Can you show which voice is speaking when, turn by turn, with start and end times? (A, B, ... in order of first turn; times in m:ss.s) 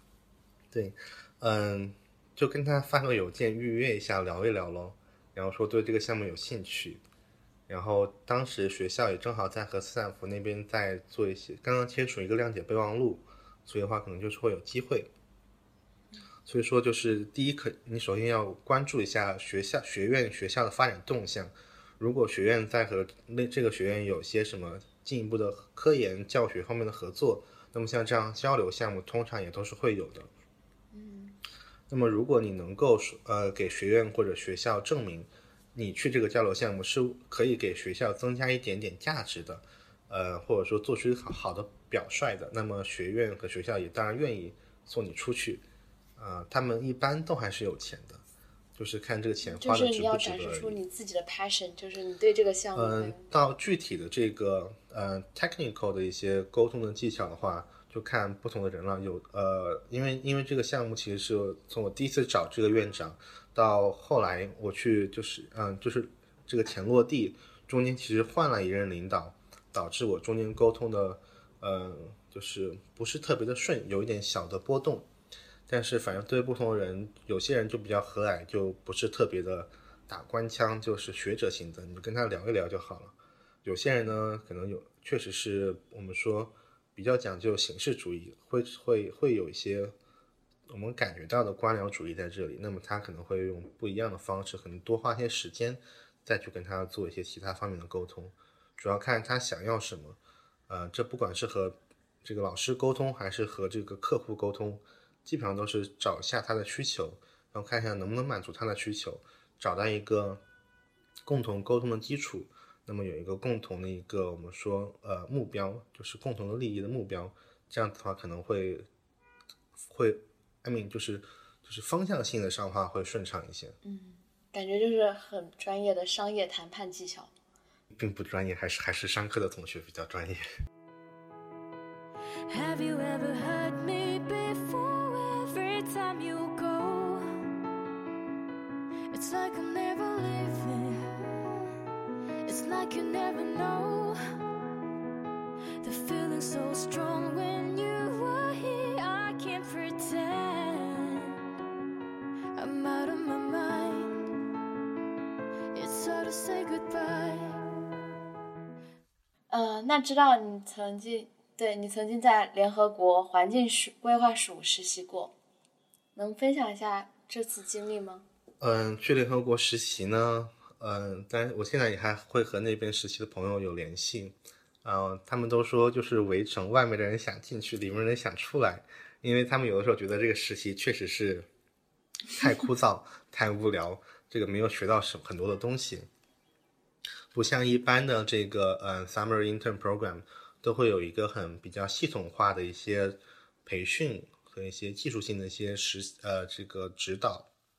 0:00.7-0:07.0 A
0:07.7-0:15.1 A
0:16.4-0:30.3 A
0:30.9-0:31.4 B
0:31.9-0:45.6 A
0:46.2-0:48.2 A
0:48.8-0:50.8 A
0:49.4-0:53.2 B
0:52.7-1:15.0 A
1:15.7-1:29.9 A
1:30.7-1:40.2 A
1:40.7-1:50.4 A
1:51.2-1:58.9 A
1:59.8-2:03.8 A
2:03.8-2:07.3 B
2:07.9-2:10.4 A
2:12.5-2:17.3 C
2:19.1-2:21.1 C
2:22.4-2:24.2 C
2:25.8-2:31.4 C
2:32.5-2:34.2 C
2:35.7-2:37.6 C
2:39.5-2:45.3 B
2:46.2-2:48.2 B
2:48.6-3:01.5 A
3:02.3-3:06.1 A
3:07.3-3:17.5 A